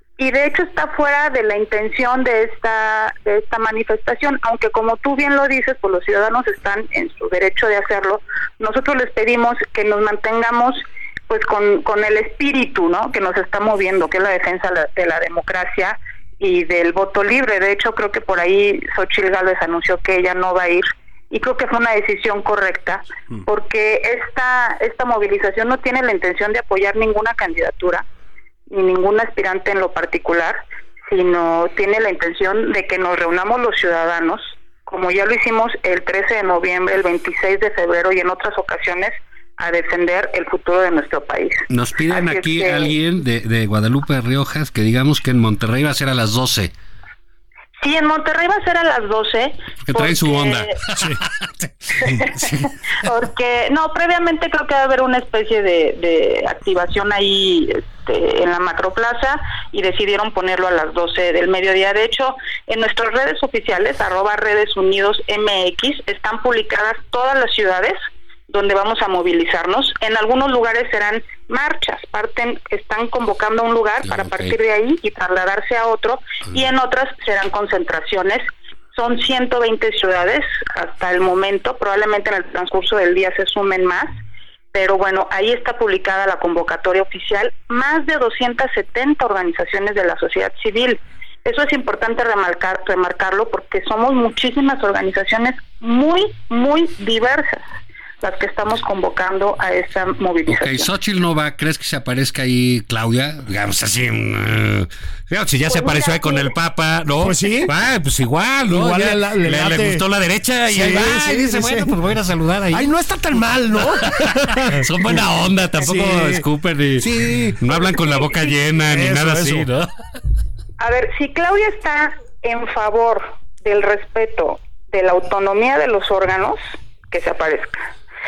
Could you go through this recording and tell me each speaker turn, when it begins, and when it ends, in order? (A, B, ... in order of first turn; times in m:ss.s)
0:00.2-0:28.0 A
0:28.7-0:42.9 A
0:41.7-0:46.7 B
0:47.8-0:50.9 A
0:49.8-0:50.8 B
0:52.0-0:52.7 B
0:52.0-1:08.0 A
1:08.5-1:24.1 A
1:14.0-1:14.5 B
1:24.7-1:37.6 A
1:38.2-1:40.9 A
1:40.4-1:52.9 B
1:45.7-1:46.5 A
1:47.2-1:47.7 C
1:48.7-1:50.0 C
1:50.7-1:52.0 C
1:52.7-1:55.2 C
1:53.8-1:59.9 B
1:55.8-1:56.4 C
1:57.0-1:57.6 C
1:58.9-1:59.7 C
2:00.8-2:07.8 A